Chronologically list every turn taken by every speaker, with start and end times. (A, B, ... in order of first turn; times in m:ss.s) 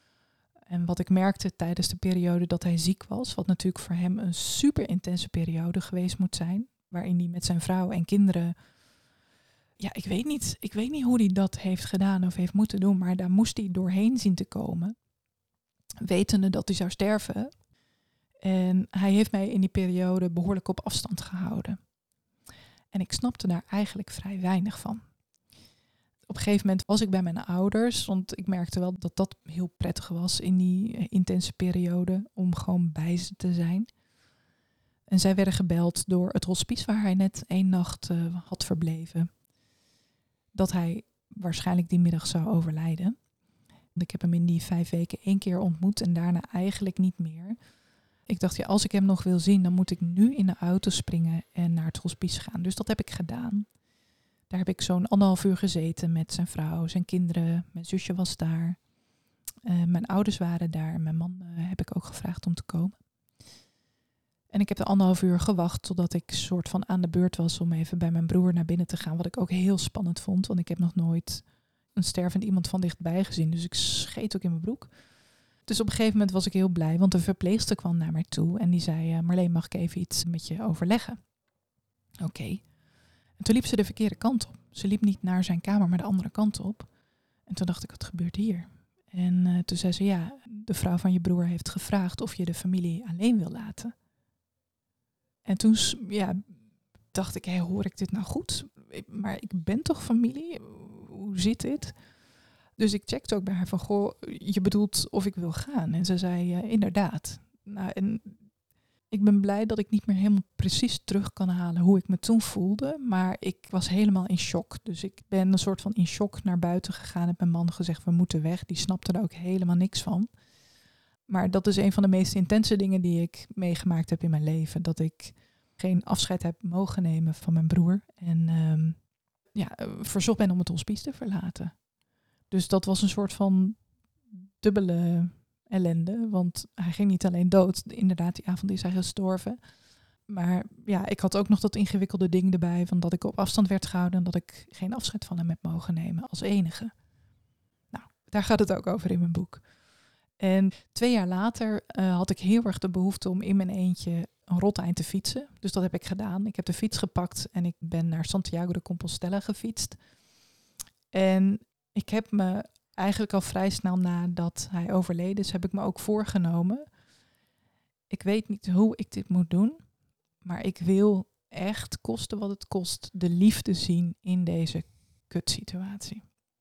0:00.7-0:08.6 A
0:09.8-0:15.0 A
0:16.0-0:17.7 A
0:18.4-0:21.9 A
0:22.9-0:25.1 A
0:26.3-0:33.9 A
0:35.1-0:39.3 A
0:40.5-0:43.2 A
0:43.9-0:47.6 A
0:48.3-0:53.7 A
0:54.5-0:58.8 A
0:59.6-1:03.0 A
1:04.5-1:14.9 A
1:15.6-1:21.2 A
1:22.2-1:22.7 A
1:23.4-1:26.9 A
1:27.5-1:34.0 A
1:35.4-1:36.6 A
1:37.1-1:42.0 A
1:42.8-1:48.5 A
1:49.1-2:00.3 A
2:01.3-2:11.9 A
2:12.5-2:19.6 A
2:20.3-2:26.9 A
2:27.9-2:29.7 A
2:30.4-2:40.0 A
2:41.1-2:46.9 A
2:48.1-2:49.8 A
2:50.4-2:56.3 A